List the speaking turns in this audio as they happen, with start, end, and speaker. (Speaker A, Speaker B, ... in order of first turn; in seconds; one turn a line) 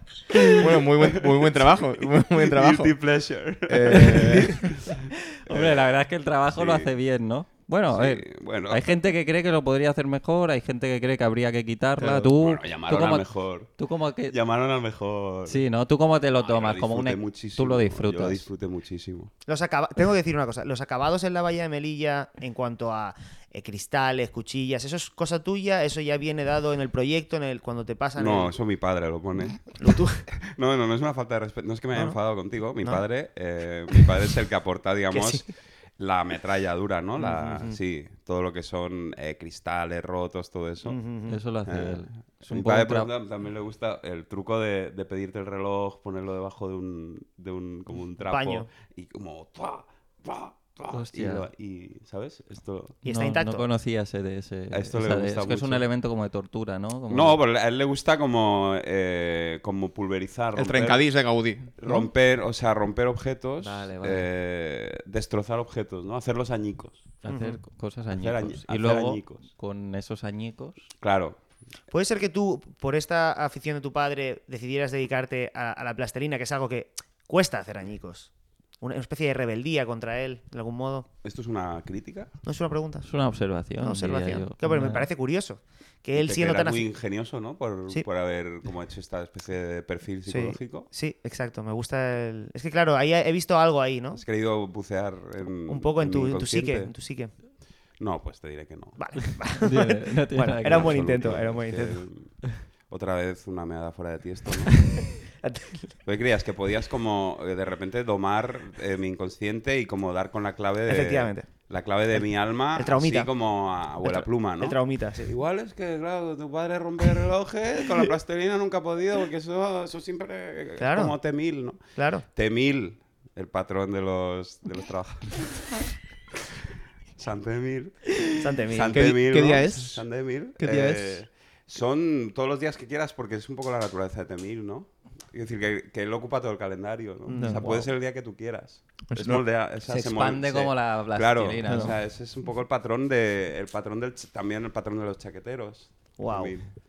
Speaker A: 0.3-1.8
Speaker B: 0.6-3.0
Speaker A: 2.3-5.9
Speaker B: 3.6-4.7
Speaker C: 3.9-4.4
Speaker C: 5.3-14.3
Speaker A: 6.5-6.9
Speaker A: 7.9-8.9
Speaker B: 12.0-12.3
Speaker A: 12.3-15.7
Speaker C: 15.4-18.5
Speaker A: 16.4-19.3
Speaker D: 19.4-28.5
Speaker A: 28.1-41.0
Speaker D: 29.7-30.2
Speaker D: 35.1-35.4
Speaker D: 37.2-37.8
Speaker D: 40.8-41.4
Speaker C: 41.3-43.1
Speaker A: 41.6-53.0
Speaker D: 48.3-48.7
Speaker C: 50.9-51.5
Speaker D: 53.0-53.6
Speaker C: 53.0-57.4
Speaker A: 54.7-55.8
Speaker A: 57.1-61.2
Speaker B: 60.5-61.7
Speaker A: 61.8-67.1
Speaker C: 63.6-64.3
Speaker C: 67.2-70.9
Speaker D: 67.3-67.6
Speaker A: 68.1-69.5
Speaker A: 71.0-71.4
Speaker D: 71.9-81.1
Speaker A: 81.2-82.3
Speaker D: 82.4-83.1
Speaker C: 83.0-85.1
Speaker D: 83.8-86.8
Speaker A: 86.2-90.9
Speaker D: 90.2-94.2
Speaker A: 94.1-96.9
Speaker D: 95.7-97.3
Speaker A: 98.0-99.0
Speaker D: 99.0-102.0
Speaker C: 99.6-101.0
Speaker A: 100.6-105.0
Speaker D: 105.3-106.0
Speaker A: 106.0-125.8
Speaker D: 110.9-111.5
Speaker D: 112.1-113.3
Speaker D: 114.0-115.3
Speaker D: 120.8-121.2
Speaker D: 121.9-122.2
Speaker A: 127.1-146.8
Speaker D: 128.4-129.1
Speaker B: 128.9-131.2
Speaker D: 137.3-137.9
Speaker B: 137.3-137.7
Speaker B: 139.1-139.4
Speaker C: 139.8-142.0
Speaker B: 141.6-141.9
Speaker D: 146.2-146.6